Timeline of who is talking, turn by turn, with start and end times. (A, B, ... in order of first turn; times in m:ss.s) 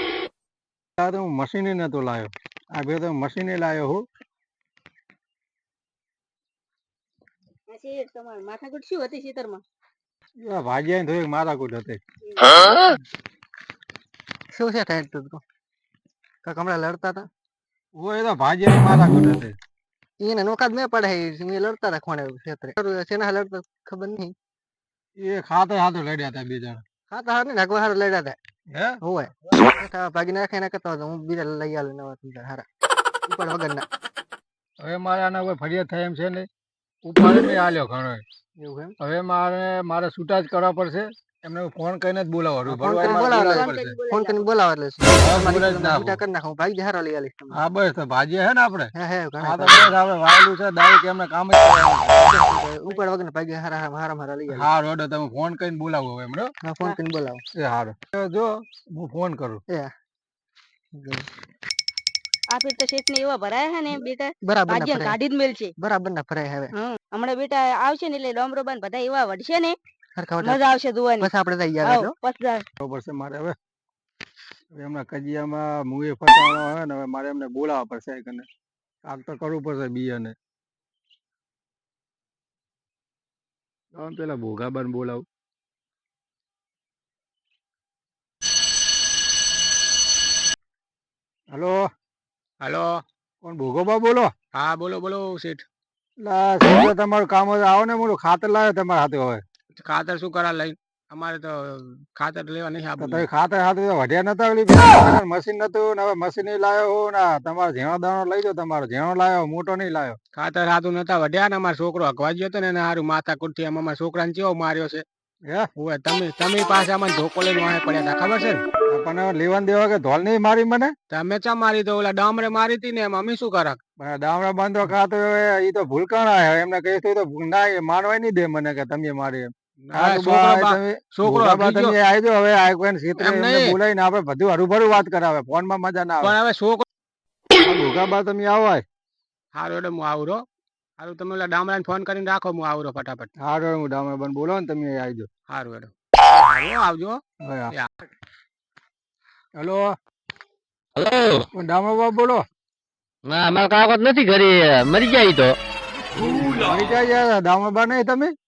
0:01.0-0:04.0 A
0:07.7-0:09.6 B
0:10.4-0:12.0 A
0:12.3-0:12.7 B
0:14.5-0:15.4 C
0:16.4-0:17.3 C
0:18.0-0:19.5 A
0:20.2-0:24.3 C
0:25.2-0:26.8 A
0:27.1-0:28.4 C
0:28.7-0:29.0 A
0:29.0-0:32.6 C
0:33.3-0:33.8 C
0:34.8-0:36.5 A
0:37.0-0:38.2 A
0:38.6-0:39.0 C
0:39.0-0:44.0 A
0:42.7-0:47.6 C
0:43.0-0:44.5 B
0:45.2-0:46.2 A
0:47.5-0:52.3 A
0:48.9-0:49.9 C
0:52.1-0:54.7 C
0:54.5-0:56.5 A
0:56.6-0:57.4 C
0:57.5-0:59.6 A
1:01.0-1:01.2 C
1:02.5-1:05.7 B
1:04.4-1:05.2 C
1:05.8-1:06.7 C
1:06.7-1:09.8 B
1:10.2-1:10.6 C
1:10.4-1:11.3 B
1:11.2-1:12.1 C
1:11.8-1:12.6 B
1:12.8-1:13.6 A
1:14.8-1:18.5 A
1:19.0-1:20.3 A
1:23.9-1:25.2 A
1:31.5-1:31.8 A
1:32.6-1:33.0 D
1:33.4-1:34.3 A
1:34.5-1:35.6 D
1:36.2-1:39.4 A
1:39.8-1:43.2 D
1:43.0-1:50.2 A
1:50.3-1:55.0 D
1:55.8-1:58.6 D
1:58.9-2:00.9 A
2:01.1-2:03.8 D
2:04.0-2:16.3 A
2:09.8-2:11.9 D
2:13.2-2:13.8 D
2:16.2-2:16.8 D
2:17.6-2:18.8 A
2:19.5-2:20.4 D
2:21.0-2:23.3 D
2:23.4-2:25.3 A
2:25.5-2:28.0 D
2:27.4-2:27.7 A
2:29.6-2:29.9 A
2:31.0-2:31.4 E
2:31.5-2:32.4 A
2:33.2-2:35.5 E
2:36.2-2:38.3 A